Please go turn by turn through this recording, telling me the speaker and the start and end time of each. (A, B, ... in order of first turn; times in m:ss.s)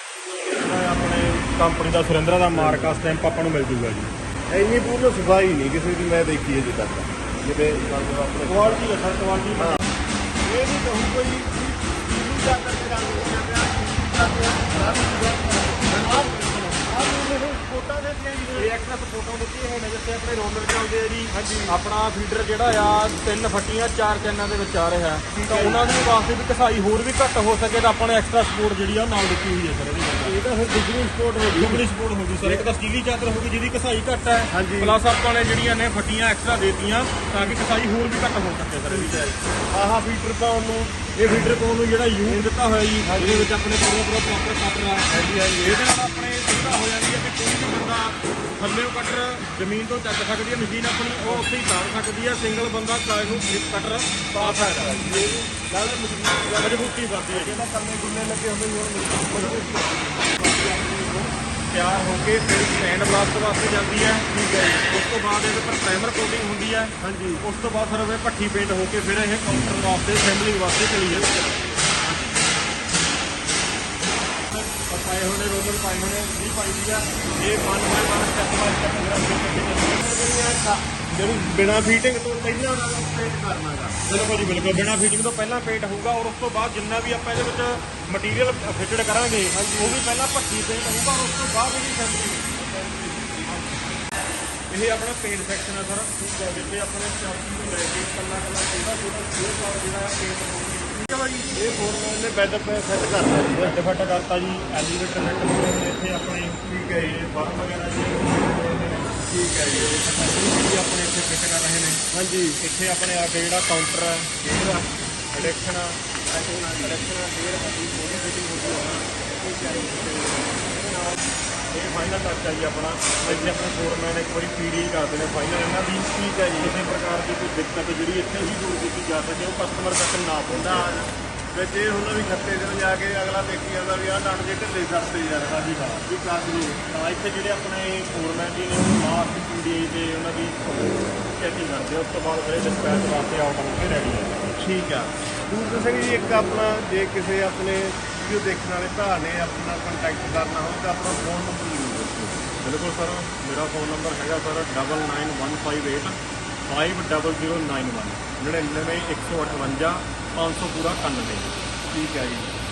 0:00.5-0:04.1 A
0:02.5-0:03.0 B
0:04.5-0:08.8 B
0:08.4-0:09.8 A
0:09.6-0:09.8 B
0:10.4-0:18.8 B
0:15.9-0:16.9 A
0:18.6-0:30.4 A
0:21.3-0:21.8 B
0:25.3-0:26.0 B
0:30.2-0:31.8 B
0:31.6-0:39.3 A
0:34.5-0:35.0 B
0:38.9-0:41.5 B
0:41.2-0:55.4 A
0:43.0-0:43.5 B
0:45.1-0:45.8 B
0:54.3-1:01.3 B
0:56.5-0:57.6 A
0:59.3-1:00.8 A
1:01.7-1:11.8 A
1:07.0-1:07.4 B
1:11.9-1:12.4 B
1:14.5-1:20.7 A
1:20.5-1:24.0 B
1:24.1-1:32.7 A
1:29.5-1:30.0 B
1:32.6-1:33.5 B
1:33.4-1:33.9 A
1:34.7-1:41.3 A
1:41.1-1:43.8 B
1:43.6-1:52.0 A
1:46.7-1:47.2 B
1:49.3-1:50.0 B
1:52.1-1:52.6 B
1:52.6-1:54.6 A
1:54.4-1:54.9 B
1:55.3-2:01.2 A
1:56.3-1:57.1 B
1:59.5-1:59.9 B
2:01.7-2:10.9 A
2:03.2-2:03.7 B
2:06.2-2:06.8 B
2:10.5-2:16.8 B
2:15.5-2:16.2 A
2:16.8-2:24.6 A
2:24.6-2:32.5 B
2:32.6-2:41.6 A
2:41.9-2:42.6 B